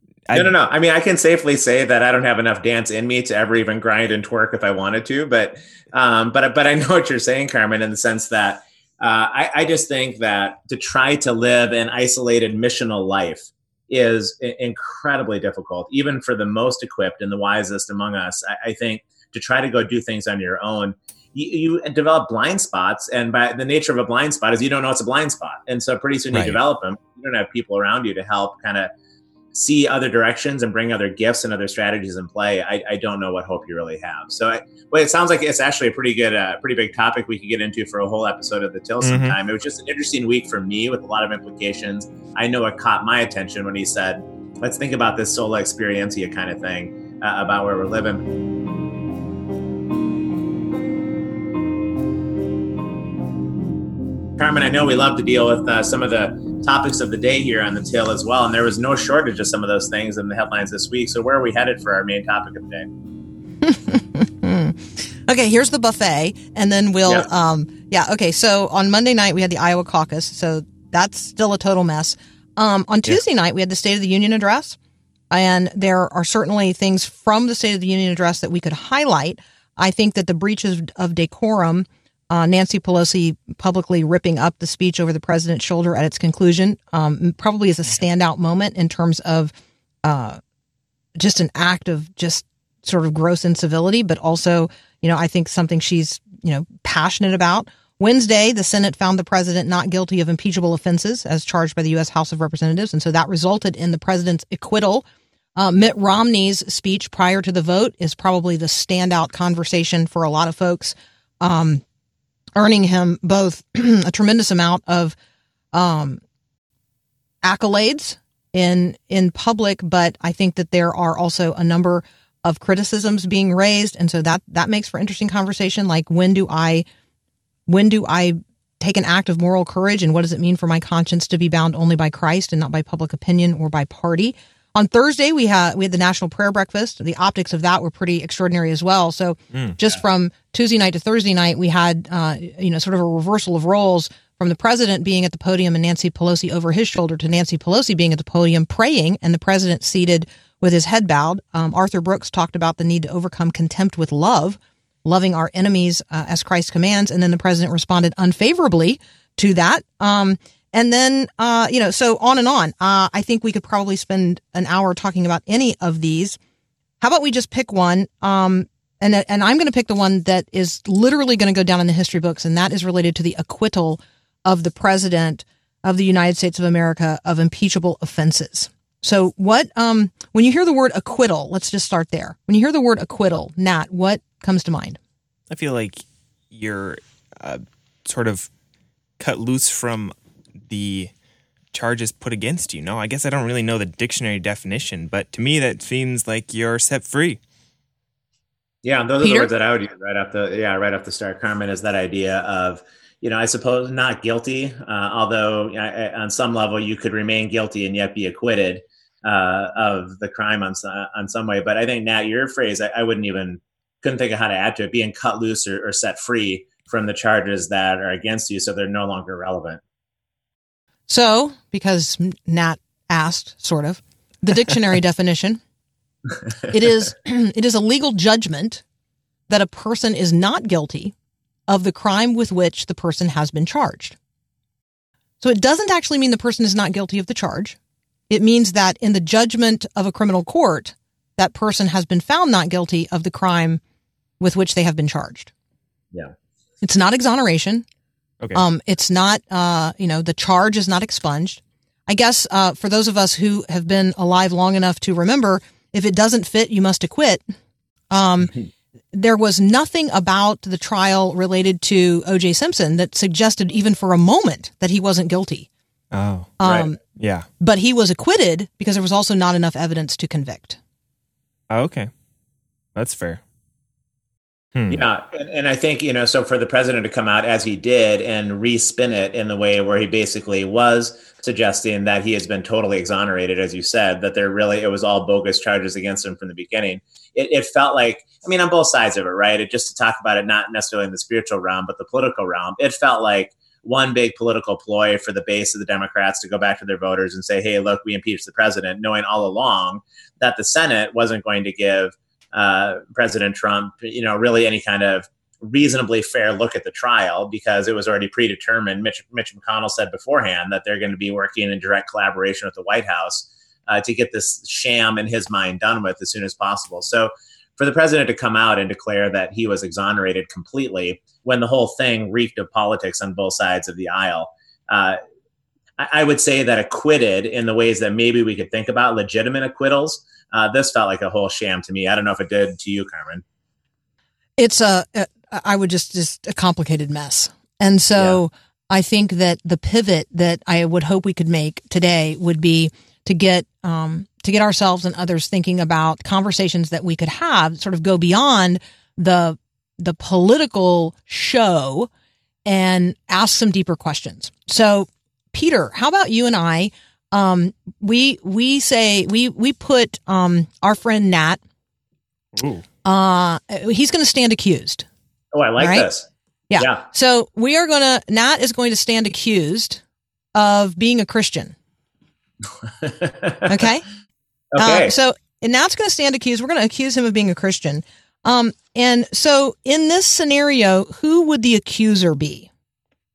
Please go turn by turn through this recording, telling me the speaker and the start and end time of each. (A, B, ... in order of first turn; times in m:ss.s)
0:00.3-0:00.5 A
0:00.3-0:28.9 B
0:26.3-0:26.6 A
0:29.5-0:48.2 B
0:39.0-0:39.4 A
0:54.4-1:02.9 B
1:03.6-1:14.8 C
1:15.3-1:29.5 C
1:30.0-1:30.4 C
1:31.2-1:45.0 C
1:45.6-1:51.8 C
1:52.6-1:55.2 C
1:55.7-1:56.2 C
1:57.4-2:06.8 C
2:07.7-2:46.4 C
2:47.0-3:05.0 C
3:05.5-3:08.5 A
3:09.2-3:10.1 A
3:10.7-3:11.1 A
3:11.7-3:17.4 A
3:18.8-3:39.8 B
3:19.2-3:19.5 C
3:41.1-3:45.6 C
3:46.7-3:48.8 C
3:49.5-3:51.1 C
3:51.7-3:54.2 C
3:55.4-3:57.8 C
3:58.3-4:03.8 C
4:04.4-4:05.5 C
4:06.8-4:07.8 C
4:08.6-4:17.4 C
4:18.1-4:18.5 C
4:19.1-4:25.7 C
4:26.1-4:26.5 A
4:26.6-4:27.0 C
4:27.2-4:27.5 A
4:27.6-4:30.8 C
4:31.7-4:32.1 A
4:33.0-4:33.4 A
4:34.8-4:35.0 A
4:34.9-5:25.2 B
5:26.0-5:33.4 B
5:34.6-5:52.1 C
5:52.7-6:01.6 C
6:02.6-6:02.8 A
6:03.0-6:05.1 C
6:05.5-6:06.3 B
6:05.8-6:06.1 C
6:06.7-6:10.0 C
6:10.6-6:11.8 C
6:13.0-6:13.7 B
6:13.7-6:14.1 C
6:14.7-6:15.1 B
6:14.8-6:22.7 C